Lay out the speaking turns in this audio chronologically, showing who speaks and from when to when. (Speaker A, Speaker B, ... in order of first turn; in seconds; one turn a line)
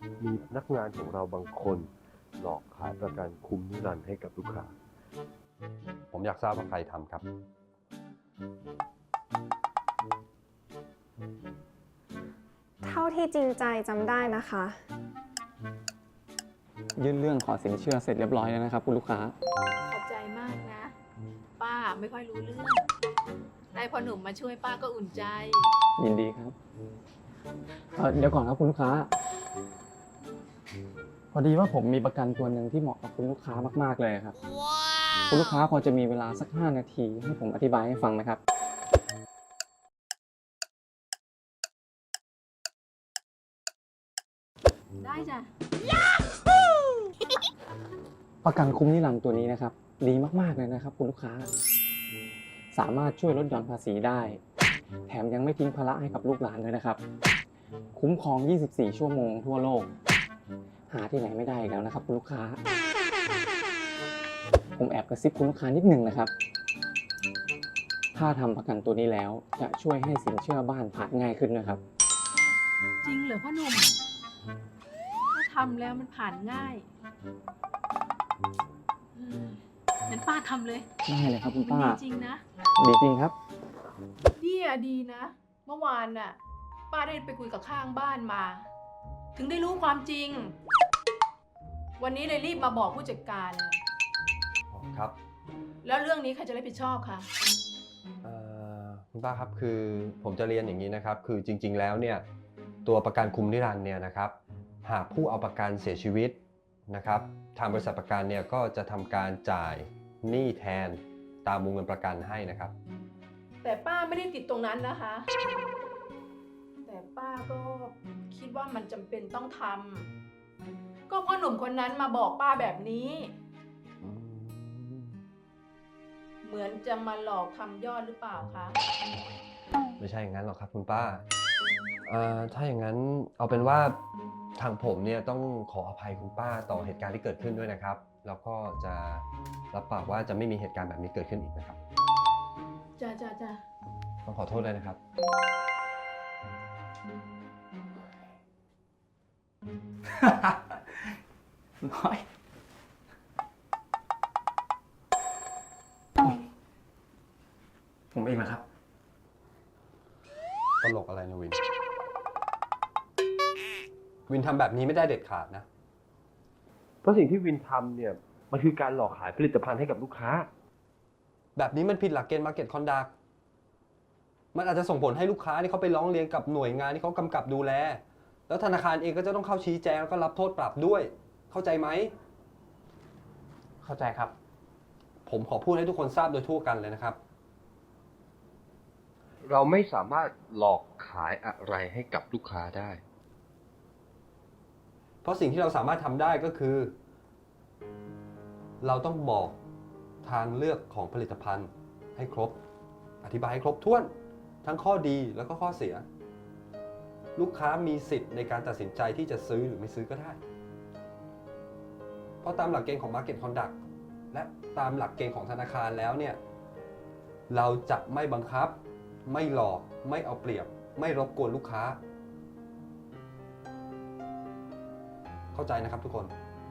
Speaker A: 0.2-4.7
Speaker B: 6.1-7.2
Speaker C: 12.8-14.8
Speaker D: 16.9-19.3
Speaker E: 19.8-20.9
Speaker E: 21.6-22.8
Speaker E: 23.7-25.7
Speaker D: 26.0-26.6
Speaker D: 27.9-29.1
Speaker D: 31.3-34.4
Speaker D: 35.3-38.4
Speaker E: 45.0-45.5
Speaker D: 48.4-51.5
Speaker D: 52.7-54.4
Speaker D: 55.1-57.0
Speaker D: 57.9-59.9
Speaker D: 60.9-62.6
Speaker D: 64.7-66.3
Speaker D: 68.1-71.8
Speaker E: 73.0-73.9
Speaker E: 75.3-76.9
Speaker E: 79.1-80.9
Speaker D: 81.1-82.0
Speaker E: 81.5-82.4
Speaker D: 82.8-83.3
Speaker E: 84.4-86.4
Speaker E: 86.9-88.7
Speaker E: 89.3-90.5
Speaker E: 92.0-93.8
Speaker B: 94.7-95.2
Speaker E: 95.8-97.3
Speaker B: 98.2-102.2
Speaker B: 102.8-106.4
Speaker B: 106.9-112.7
Speaker E: 113.6-115.3
Speaker E: 116.8-120.1
Speaker E: 121.1-123.3
Speaker B: 124.0-125.2
Speaker E: 126.4-128.8
Speaker B: 129.1-129.4
Speaker B: 130.0-131.2
Speaker B: 132.0-134.0
Speaker B: 134.6-141.8
Speaker E: 143.0-143.6
Speaker B: 144.2-145.0
Speaker D: 150.2-150.6
Speaker D: 151.8-152.2
Speaker D: 158.1-158.6
Speaker B: 160.8-161.6
Speaker B: 164.3-165.7
Speaker A: 167.0-170.5
Speaker B: 171.6-173.1
Speaker B: 174.5-182.1
Speaker D: 183.8-184.3
Speaker B: 185.2-187.2
Speaker A: 189.4-193.0
Speaker B: 195.2-196.9
Speaker B: 198.8-199.6
Speaker B: 200.2-202.6
Speaker B: 203.2-204.1
Speaker B: 204.6-206.1
Speaker B: 207.3-210.4
Speaker B: 212.4-213.8
Speaker B: 214.3-216.4
Speaker B: 217.5-222.0
Speaker B: 225.5-226.3